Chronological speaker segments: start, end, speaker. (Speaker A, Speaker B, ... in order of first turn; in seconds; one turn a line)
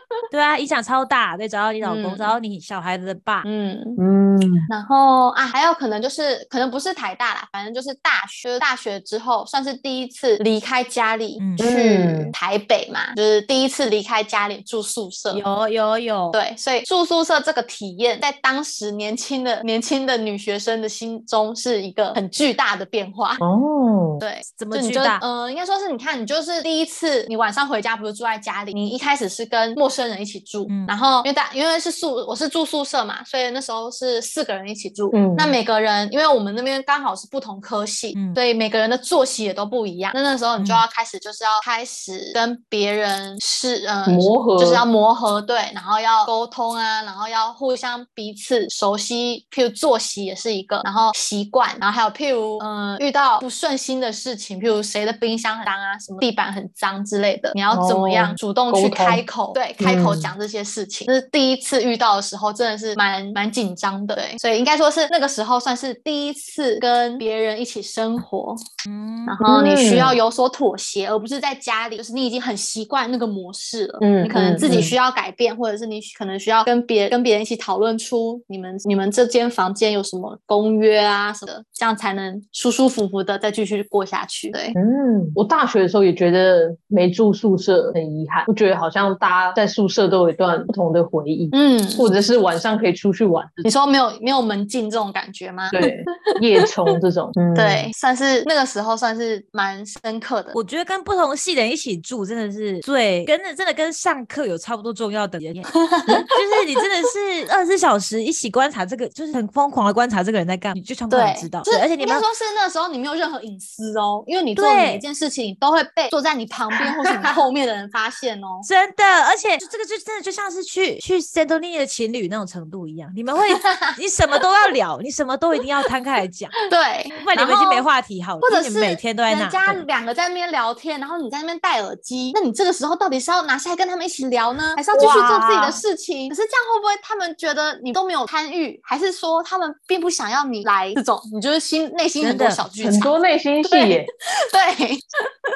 Speaker A: 0.3-3.5
Speaker B: 1.8-2.3
Speaker B: 3.4-4.0
Speaker C: 4.0-4.7
Speaker B: 4.7-15.4
Speaker A: 11.4-11.6
Speaker C: 11.6-12.3
Speaker A: 15.3-16.4
Speaker B: 16.3-23.4
Speaker C: 23.4-24.2
Speaker B: 24.2-68.6
Speaker A: 24.6-25.2
Speaker C: 35.1-35.5
Speaker A: 38.1-38.4
Speaker A: 40.6-40.8
Speaker C: 44.0-44.8
Speaker C: 57.7-59.2
Speaker C: 59.8-60.3
Speaker A: 68.8-69.3
Speaker B: 69.3-84.8
Speaker C: 69.4-70.2
Speaker C: 74.0-74.9
Speaker C: 84.7-93.7
Speaker B: 91.5-92.1
Speaker B: 93.6-96.7
Speaker C: 95.7-97.9
Speaker B: 97.5-100.6
Speaker A: 100.5-105.7
Speaker B: 105.8-106.3
Speaker A: 106.3-112.2
Speaker B: 111.1-118.7
Speaker A: 114.5-115.0
Speaker A: 118.6-126.5
Speaker B: 123.6-123.9
Speaker B: 126.7-127.8
Speaker A: 127.2-129.8
Speaker B: 128.4-143.1
Speaker C: 134.9-135.8
Speaker A: 142.2-142.6
Speaker C: 142.8-144.1
Speaker B: 143.7-145.1